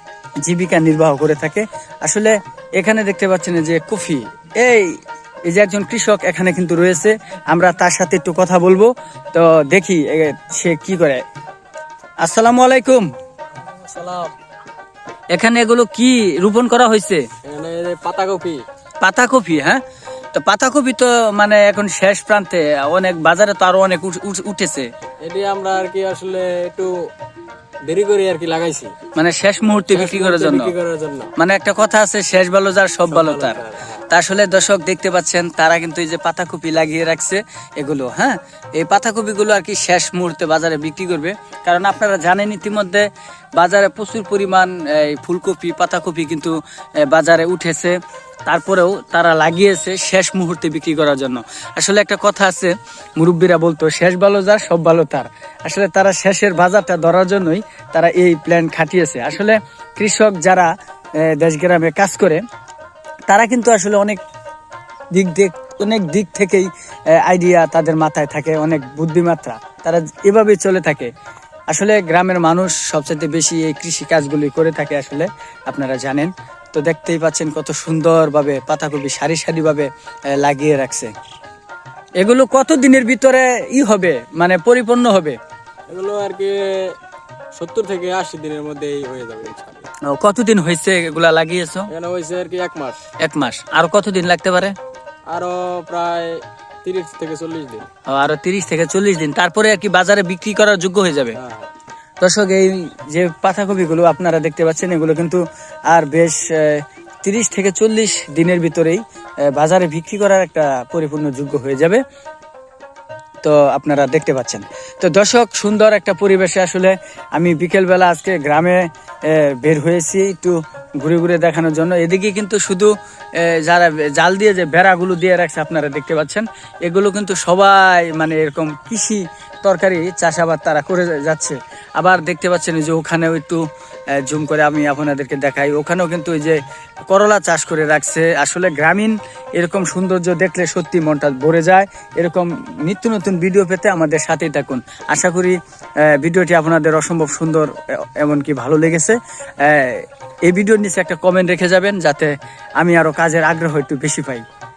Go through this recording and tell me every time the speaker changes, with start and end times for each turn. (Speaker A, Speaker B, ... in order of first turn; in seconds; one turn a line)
Speaker A: 0.4-11.2
Speaker A: 12.2-13.1
Speaker B: 13.7-14.3
Speaker A: 15.3-17.2
Speaker B: 17.4-18.6
Speaker A: 19.0-19.8
Speaker A: 20.3-24.9
Speaker B: 25.2-26.9
Speaker B: 27.9-28.9
Speaker A: 29.1-30.7
Speaker B: 29.9-31.3
Speaker A: 31.4-43.0
Speaker B: 33.1-34.0
Speaker A: 43.6-46.5
Speaker A: 47.0-47.9
Speaker A: 48.5-60.7
Speaker A: 61.2-62.4
Speaker A: 63.3-64.2
Speaker A: 65.1-71.1
Speaker A: 71.7-81.1
Speaker A: 82.2-85.4
Speaker B: 85.9-87.0
Speaker B: 87.5-89.8
Speaker A: 90.1-91.9
Speaker B: 91.9-93.0
Speaker A: 93.2-94.7
Speaker B: 95.3-97.9
Speaker A: 98.1-101.4
Speaker B: 101.4-101.7
Speaker A: 102.2-112.0
Speaker A: 113.4-133.6
Speaker A: 134.2-136.6
Speaker A: 137.1-154.4